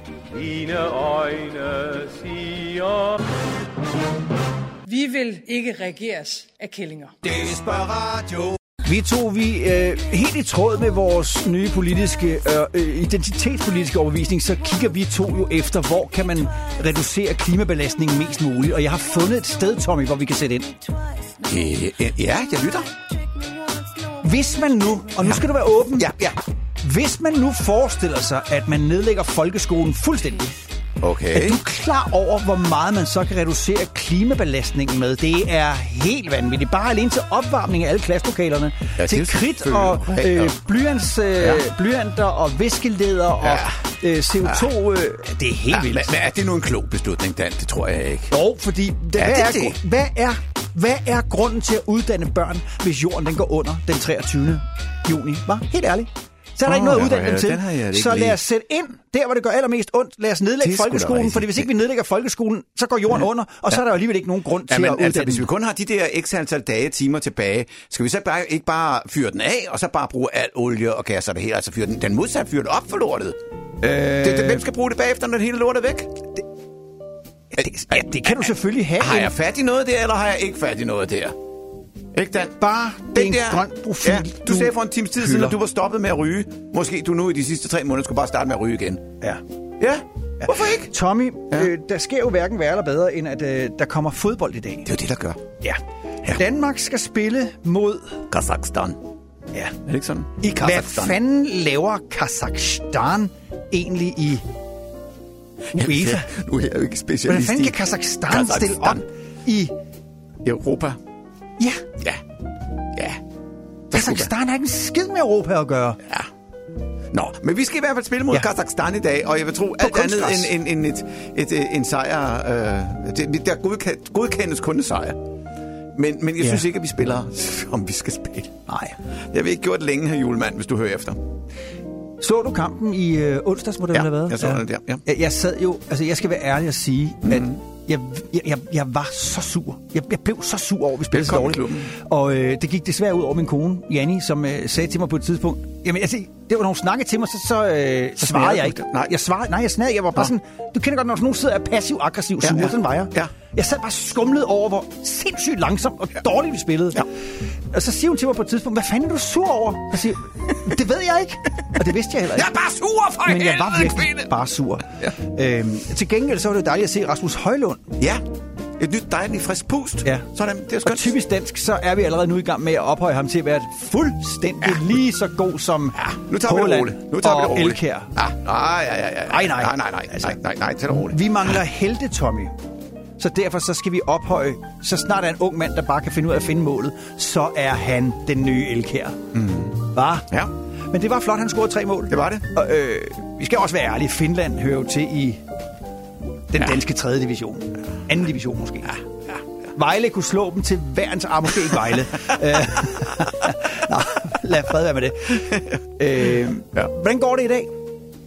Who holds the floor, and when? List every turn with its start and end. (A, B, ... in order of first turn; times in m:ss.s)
0:04.9-0:07.1 A
0:07.2-0:20.8 B
0:21.4-0:22.9 C
0:24.2-0:26.1 B
0:26.0-0:26.4 C
0:26.8-0:30.6 B
0:31.0-0:31.6 C
0:31.3-0:46.1 B
0:39.0-0:40.5 C
0:43.4-0:43.8 C
0:45.7-0:48.3 C
0:48.3-1:05.5 B
0:49.2-0:49.8 C
0:56.7-0:58.4 C
1:00.6-1:01.7 C
1:04.7-1:13.4 C
1:13.8-1:14.6 B
1:14.2-1:16.1 C
1:17.5-1:19.3 B
1:17.6-1:21.4 C
1:22.1-1:22.6 C
1:22.6-1:25.6 B
1:23.1-1:29.0 C
1:29.8-1:30.9 C
1:30.4-1:34.9 B
1:34.9-1:35.4 C
1:36.3-1:38.2 B
1:38.3-1:39.0 C
1:39.9-1:41.2 C
1:40.4-1:44.4 B
1:45.7-1:47.8 C
1:45.8-1:46.3 B
1:47.3-1:49.7 B
1:48.3-1:49.0 C
1:50.4-1:51.0 C
1:51.6-1:51.8 B
1:53.0-1:53.2 C
1:53.9-1:54.3 C
1:53.9-1:56.0 B
1:57.1-2:05.2 C
1:59.8-2:00.5 B
2:06.0-2:08.6 C
2:08.7-2:09.0 B
2:09.3-2:11.2 C
2:12.2-2:37.1 B
2:13.9-2:15.0 C
2:17.3-2:17.6 C
2:21.1-2:21.9 C
2:28.2-2:29.1 C
2:32.4-2:33.3 C
2:37.7-2:42.5 B
2:42.3-2:44.3 C
2:43.3-2:47.9 B
2:48.0-2:48.2 C
2:48.8-2:51.2 C
2:50.8-2:58.1 B
2:56.0-3:01.6 C
2:59.3-3:00.4 B
3:01.0-3:02.5 B
3:03.2-3:09.2 B
3:09.3-3:09.8 C
3:09.9-3:10.3 B
3:10.9-3:15.4 B
3:12.1-3:12.4 C
3:16.5-3:19.0 B
3:19.8-3:25.5 B
3:26.0-3:27.7 B